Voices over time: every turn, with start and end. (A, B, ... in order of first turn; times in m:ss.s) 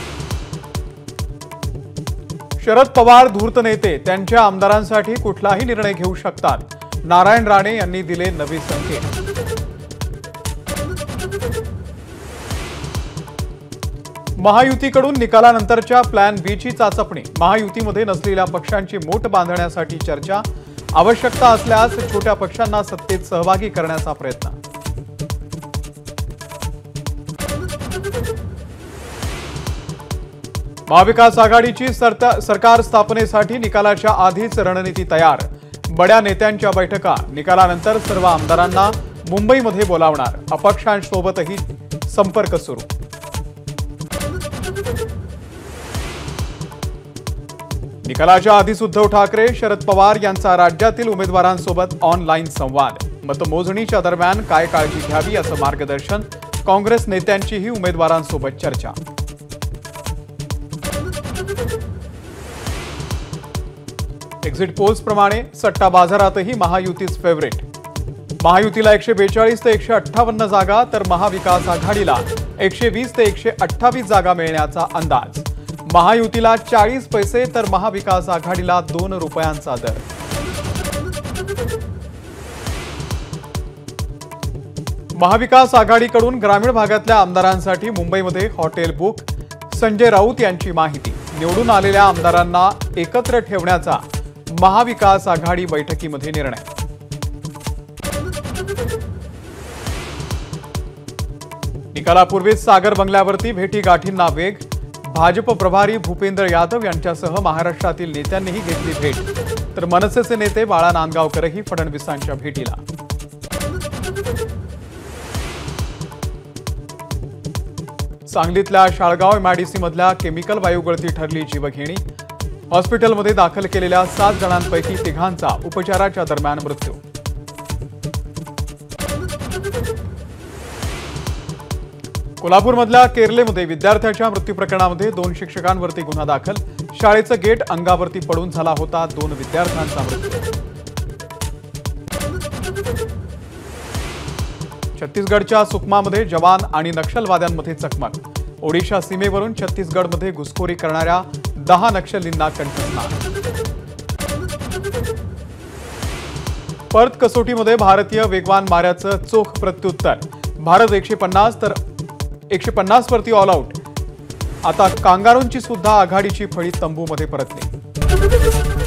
0:02.6-0:09.1 A
0:14.4-0:24.6 A
0:30.9-0:42.9 A
0:48.0-0:59.0 A
1:04.4-1:07.6 A
1:08.4-1:20.0 A
1:25.2-1:36.7 A
1:41.9-1:52.8 A
1:58.3-2:02.0 A
2:02.7-2:07.0 A
2:12.4-2:20.5 A
2:25.0-2:33.2 A
2:36.9-2:41.8 A
2:42.5-2:43.8 A
2:44.6-2:47.7 A